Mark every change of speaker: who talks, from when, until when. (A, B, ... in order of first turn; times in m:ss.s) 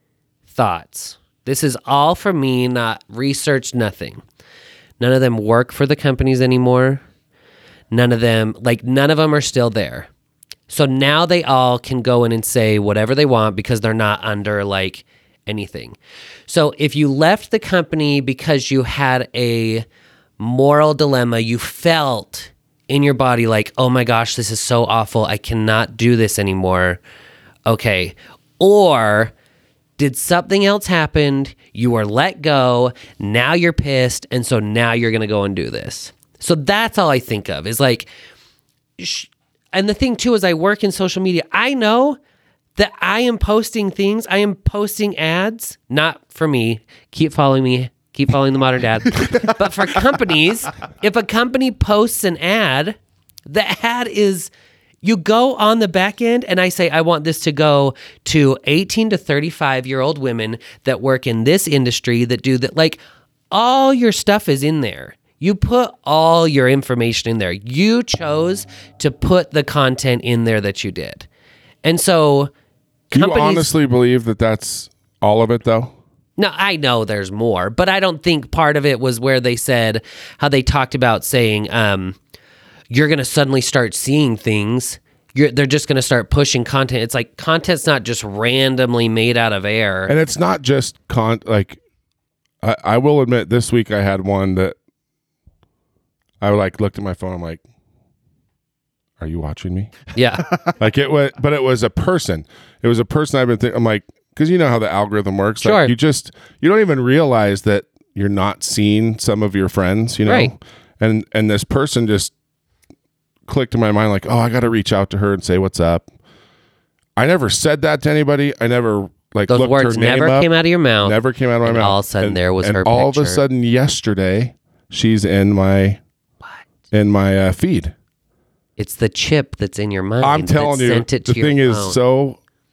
0:00.5-0:04.2 A
0:05.0-0:07.0 A
0:07.9-0:10.1 A
0:10.7-0:19.8 A
0:20.4-0:27.0 A
0:27.6-0:29.3 A
0:30.0-0:38.1 A
0:39.0-0:42.2 A
0:42.8-0:54.5 A
0:55.0-1:03.0 A
1:03.5-1:11.3 A
1:11.8-1:12.5 A
1:13.1-1:13.7 A
1:13.1-1:15.9 B
1:16.4-1:22.2 A
1:22.9-1:30.1 A
1:30.1-1:31.8 B
1:32.6-1:34.7 B
1:36.4-1:37.6 B
1:39.2-1:39.9 B
1:40.1-1:40.5 A
1:40.7-1:52.3 B
1:45.6-1:45.9 A
1:50.2-1:50.5 A
1:53.5-1:56.0 B
1:57.2-2:00.5 B
1:59.5-2:03.4 A
2:01.0-2:06.0 B
2:06.9-2:07.9 B
2:08.8-2:12.0 A
2:10.2-2:12.4 B